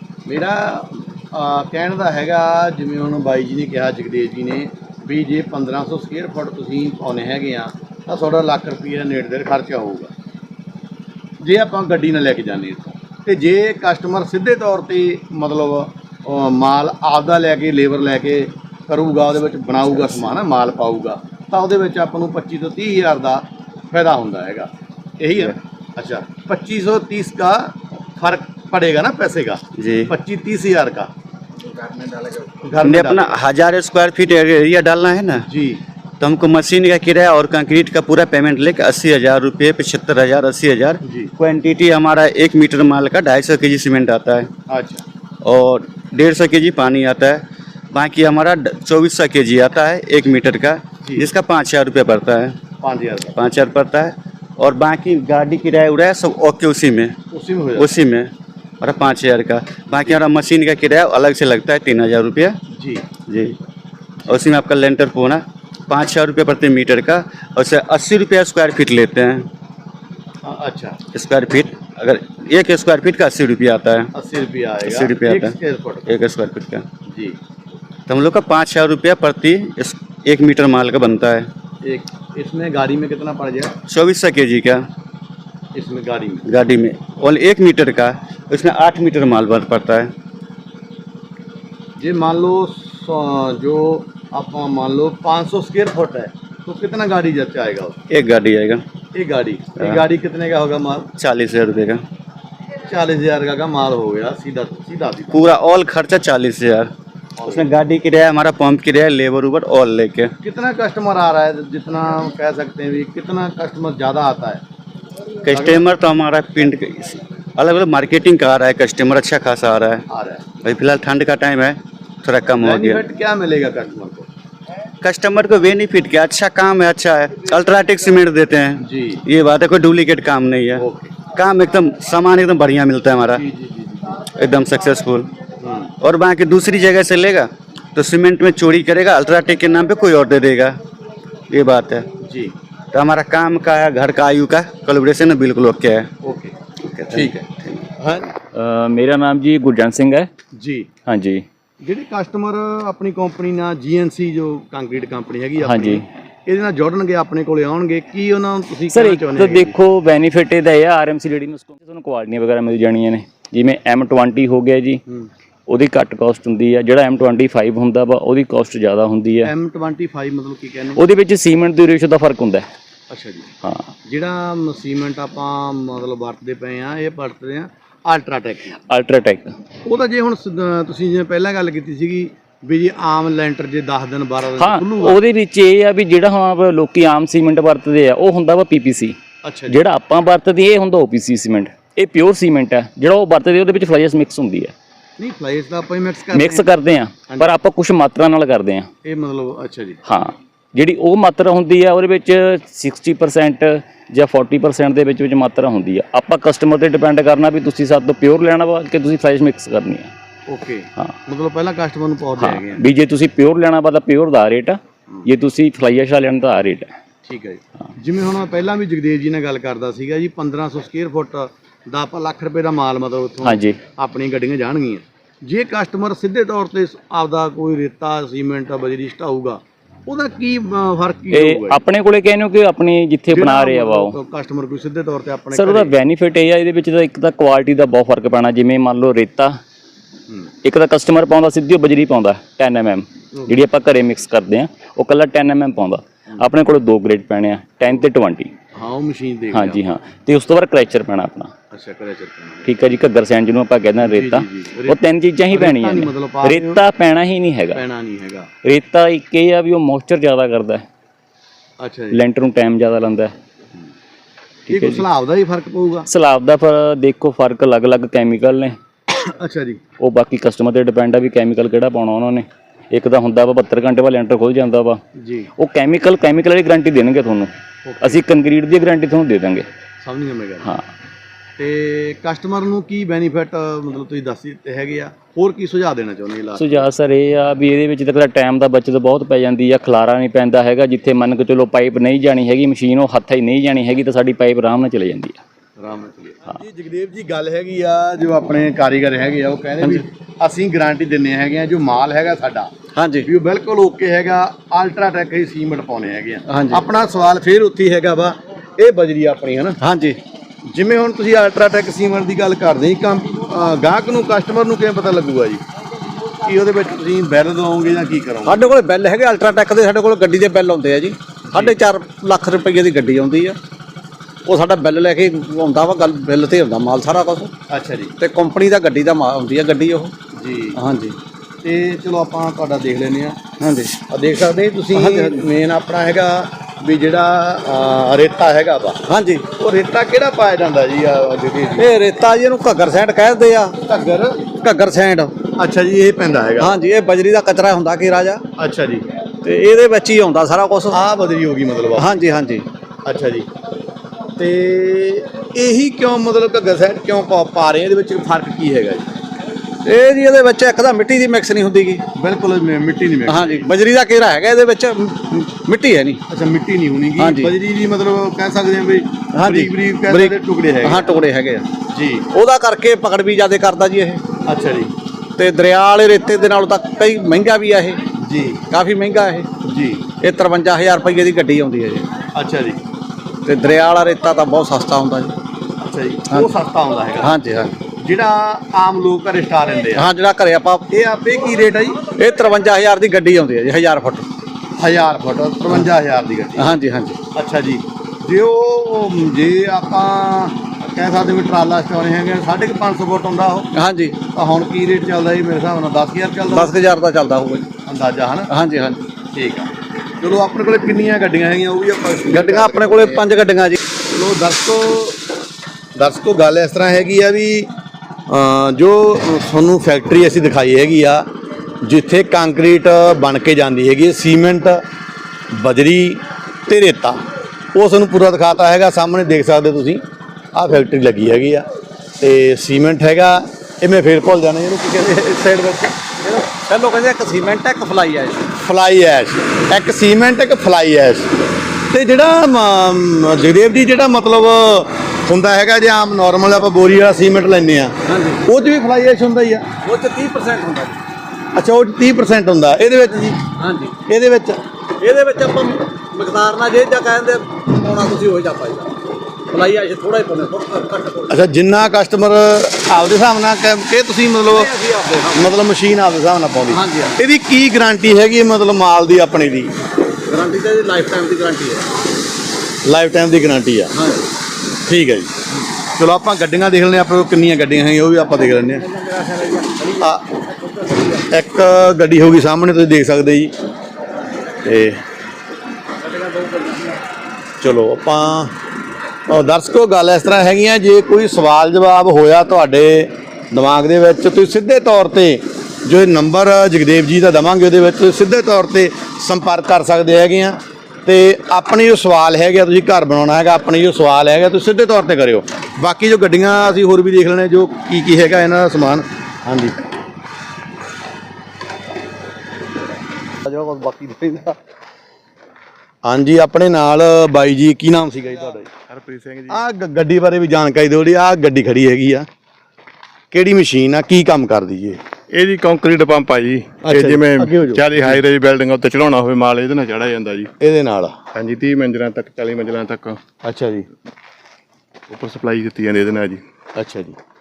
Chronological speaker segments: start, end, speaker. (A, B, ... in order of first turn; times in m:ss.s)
0:00.2-0:10.1 A
0:11.4-0:24.7 A
0:25.2-0:31.1 A
0:29.8-0:30.1 B
0:32.4-0:33.3 A
0:32.8-0:35.5 B
0:35.5-0:35.8 A
0:36.2-0:44.5 B
0:41.0-0:41.3 A
0:44.7-0:45.0 A
0:45.4-0:52.6 B
0:51.0-0:51.3 A
0:52.8-0:53.4 A
0:53.3-0:57.2 B
0:57.3-0:57.9 A
0:57.8-1:02.6 B
1:02.7-1:03.0 A
1:03.2-1:03.6 B
1:04.2-1:09.5 B
1:10.4-1:11.0 A
1:11.1-1:14.1 B
1:14.1-1:16.1 A
1:14.8-1:15.5 B
1:16.0-1:16.8 B
1:17.0-1:17.4 A
1:18.1-1:21.5 B
1:21.8-1:23.8 A
1:23.9-1:24.8 B
1:25.7-1:26.4 A
1:26.4-1:30.1 B
1:32.0-1:38.0 A
1:38.1-1:38.8 B
1:39.1-1:41.1 A
1:41.2-1:42.0 B
1:42.8-1:45.5 A
1:45.3-1:46.9 B
1:47.4-1:47.7 A
1:47.4-1:50.3 B
1:50.4-1:54.6 A
1:55.4-2:00.0 B
1:55.5-1:55.8 A
2:00.1-2:00.4 A
2:00.6-2:03.0 B
2:02.6-2:04.3 A
2:05.0-2:13.4 B
2:08.8-2:09.2 A
2:10.8-2:11.1 A
2:13.3-2:14.3 A
2:14.3-2:15.3 B
2:15.6-2:15.9 A
2:16.0-2:20.8 B
2:21.5-2:22.1 B
2:22.2-2:22.5 A
2:22.9-2:26.1 B
2:26.2-2:26.5 A
2:26.8-2:27.8 B
2:27.1-2:28.3 A
2:28.5-2:30.3 C
2:30.5-2:30.9 A
2:31.1-2:31.4 C
2:31.8-2:39.7 A
2:35.6-2:36.0 C
2:38.9-2:45.0 C
2:45.7-2:49.5 C
2:49.4-2:51.0 A
2:51.0-2:52.6 C
2:53.1-2:53.5 A
2:54.0-2:58.8 A
2:58.9-2:59.5 C
2:59.8-3:05.2 A
3:04.6-3:09.2 C
3:09.4-3:09.8 A
3:09.7-3:14.7 C
3:15.2-3:16.7 A
3:16.3-3:18.9 C
3:19.0-3:20.0 A
3:20.0-3:30.1 C
3:30.5-3:32.8 A
3:32.4-3:36.9 C
3:37.2-3:51.8 A
3:43.4-3:43.8 C
3:51.3-3:54.2 C
3:53.3-3:55.9 A
3:55.5-3:59.6 C
4:00.6-4:08.5 C
4:08.7-4:09.8 A
4:09.5-4:11.5 C
4:11.7-4:12.8 A
4:12.6-4:17.8 C
4:14.0-4:15.0 A
4:15.5-4:16.8 A
4:17.7-4:18.5 A
4:18.6-4:20.8 C
4:21.8-4:22.2 A
4:22.1-4:23.3 C
4:24.7-4:26.1 A
4:24.7-4:25.0 C
4:26.1-4:28.8 C
4:29.1-4:29.8 A
4:30.0-4:35.0 C
4:35.2-4:35.5 A
4:35.6-4:39.6 C
4:37.8-4:38.2 A
4:40.0-4:40.7 A
4:41.6-4:46.8 A
4:46.6-4:55.4 C
4:55.8-5:02.7 A
5:02.9-5:03.3 D
5:03.2-5:09.8 A
5:06.5-5:06.8 D
5:09.8-5:10.2 D
5:10.6-5:15.6 A
5:16.4-5:18.7 A
5:18.4-5:23.6 D
5:21.5-5:21.8 A
5:24.4-5:27.5 D
5:27.7-5:28.1 A
5:28.2-5:30.1 D
5:30.3-5:30.8 A
5:30.8-5:31.2 D
5:31.6-5:33.4 A
5:33.6-5:34.0 D
5:34.1-5:41.9 A
5:34.9-5:35.5 D
5:39.1-5:39.5 D
5:41.8-5:43.8 D
5:43.8-5:44.5 A
5:44.5-5:45.3 D
5:45.5-5:46.7 A
5:46.6-5:48.4 D
5:48.6-5:49.1 A
5:49.4-5:51.0 D
5:50.9-5:52.2 A
5:52.0-5:52.6 D
5:53.0-5:53.5 A
5:54.4-5:59.2 A
5:59.8-6:02.0 D
6:02.1-6:03.6 A
6:03.3-6:06.2 D
6:06.3-6:11.1 A
6:07.2-6:07.5 D
6:09.3-6:11.6 D
6:11.9-6:12.3 A
6:12.3-6:14.2 D
6:14.4-6:14.9 A
6:15.4-6:18.1 D
6:18.2-6:18.6 A
6:18.7-6:19.5 D
6:19.6-6:20.1 A
6:20.2-6:22.0 D
6:22.3-6:22.8 A
6:23.4-6:25.3 D
6:25.8-6:27.3 A
6:27.2-6:27.8 D
6:28.0-6:30.1 A
6:29.9-6:30.9 D
6:30.9-6:32.1 A
6:32.2-6:34.3 D
6:34.8-6:36.7 A
6:36.6-6:37.2 D
6:37.3-6:43.7 A
6:43.7-6:44.2 D
6:44.3-6:46.7 A
6:46.5-6:47.7 D
6:47.8-6:48.5 A
6:48.5-6:49.1 D
6:49.3-6:53.3 A
6:52.3-6:53.8 D
6:54.1-6:55.2 A
6:55.9-6:57.7 A
6:58.3-7:01.2 A
7:01.8-7:04.8 A
7:05.5-7:07.2 A
7:07.7-7:11.7 A
7:12.2-7:16.2 A
7:16.3-7:18.4 D
7:18.6-7:21.4 A
7:21.9-7:29.7 A
7:28.0-7:28.4 D
7:29.8-7:31.0 D
7:31.5-7:33.5 A
7:33.6-7:34.0 D
7:34.1-7:34.6 A
7:35.0-7:41.4 D
7:41.3-7:44.7 A
7:44.5-7:45.6 D
7:45.3-7:49.8 A
7:46.7-7:47.2 D
7:50.3-7:51.9 D
7:52.8-7:53.9 A
7:53.9-7:54.3 D
7:54.8-7:55.4 A
7:55.9-7:58.8 A
7:58.8-8:01.2 D
8:00.0-8:00.2 A
8:01.3-8:03.5 A
8:04.6-8:05.0 A
8:06.0-8:07.0 D
8:07.6-8:08.5 A
8:09.3-8:29.8 A
8:33.4-8:34.6 D
8:36.0-8:38.7 A
8:38.9-8:39.6 E
8:39.5-8:42.3 A
8:43.3-8:45.0 A
8:45.3-8:50.5 E
8:46.8-8:48.2 A
8:50.6-8:51.1 A
8:51.3-8:53.2 E
8:53.4-8:53.8 A
8:55.1-8:56.4 E
8:56.8-8:57.2 A